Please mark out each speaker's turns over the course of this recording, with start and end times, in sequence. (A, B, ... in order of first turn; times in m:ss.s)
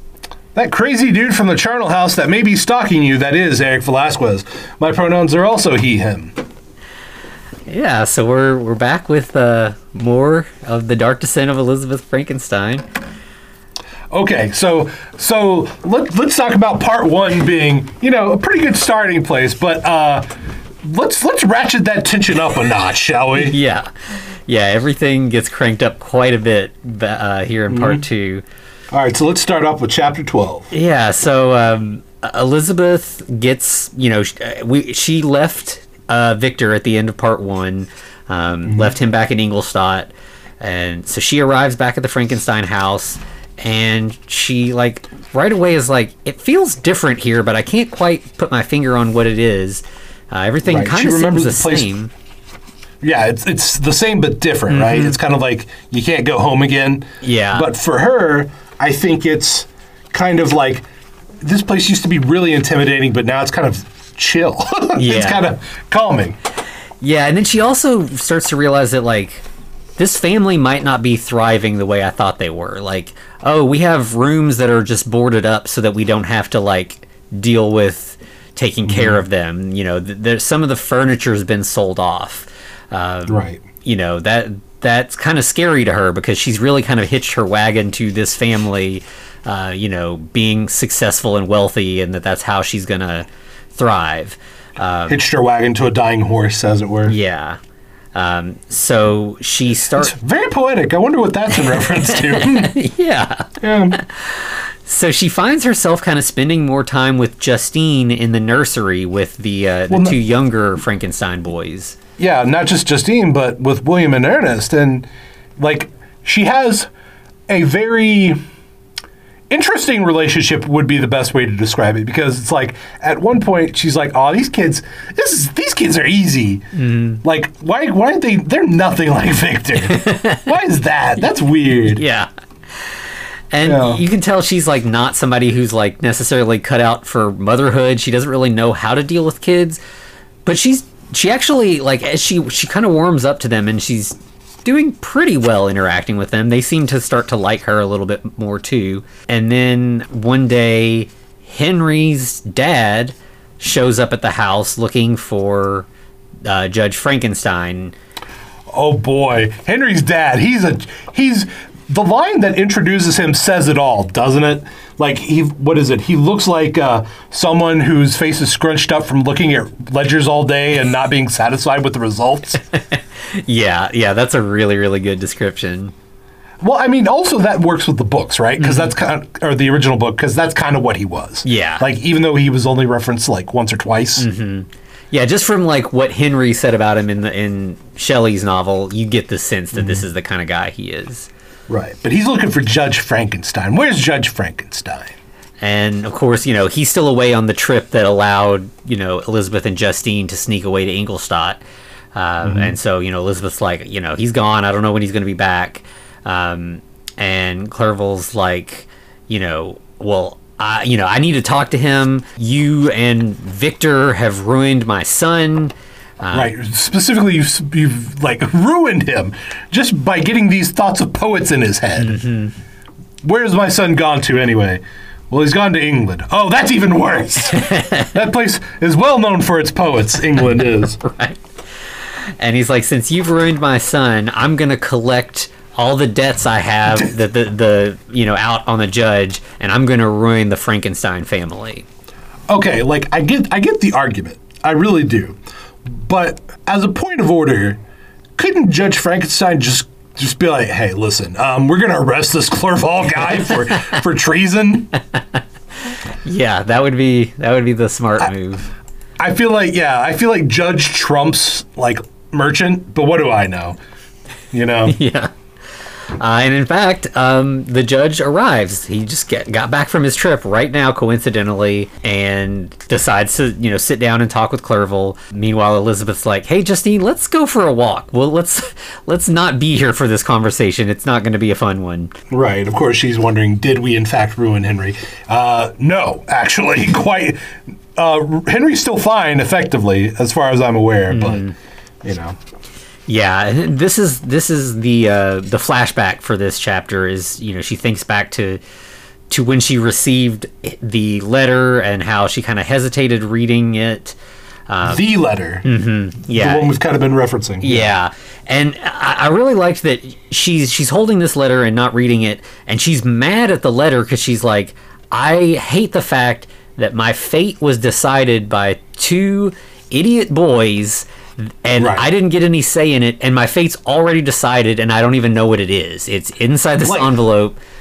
0:00.6-0:06.4 A
0:07.7-0:12.8 B
0:14.1-0:20.3 A
0:20.8-0:23.6 A
0:23.4-0:23.9 B
0:24.5-0:28.4 B
0:27.7-0:28.0 A
0:28.9-0:30.7 A
0:30.7-0:52.1 B
0:38.6-0:38.9 A
0:50.6-0:51.9 A
0:53.0-1:00.8 A
0:54.7-0:55.2 B
0:57.2-0:57.7 B
1:01.4-1:06.4 A
1:05.0-1:05.5 B
1:07.0-1:09.4 B
1:10.0-1:35.2 B
1:18.9-1:19.2 A
1:23.3-1:23.6 A
1:35.1-1:37.2 A
1:37.1-1:37.6 B
1:38.2-1:40.2 B
1:40.0-1:42.7 A
1:41.7-1:52.0 B
1:43.6-1:44.0 A
1:49.9-1:50.2 A
1:52.2-1:55.1 A
1:55.6-1:56.9 A
1:57.5-1:58.4 A
1:59.5-2:06.6 A
2:06.7-2:07.2 B
2:07.2-2:12.0 A
2:09.9-2:10.5 B
2:11.9-2:12.3 B
2:12.8-2:19.8 B
2:13.6-2:14.0 A
2:20.5-2:35.9 B
2:36.4-2:37.9 B
2:38.7-2:52.6 A
2:52.7-2:55.9 B
2:56.6-3:04.3 A
2:58.6-2:59.0 B
3:01.4-3:01.9 B
3:04.2-3:11.3 B
3:09.7-3:10.0 A
3:11.7-3:15.2 A
3:15.6-3:21.6 B
3:22.2-3:36.5 B
3:22.4-3:22.8 A
3:36.3-3:42.2 A
3:42.0-3:42.5 B
3:43.2-3:51.0 A
3:47.6-3:48.1 B
3:51.0-3:51.4 B
3:52.4-4:01.8 B
4:02.5-4:07.8 A
4:08.4-4:14.9 A
4:16.2-4:18.7 B
4:19.2-4:23.8 A
4:24.5-4:25.0 A
4:24.9-4:25.3 B
4:26.2-4:42.1 B
4:42.3-4:51.5 A
4:51.1-4:51.5 B
4:52.0-4:52.4 A
4:53.1-4:58.6 B
4:59.3-5:04.2 B
5:04.7-5:05.0 B
5:04.8-5:05.7 A
5:05.6-5:06.7 B
5:06.3-5:08.0 A
5:07.6-5:27.6 B
5:21.8-5:22.1 A
5:26.8-5:27.2 A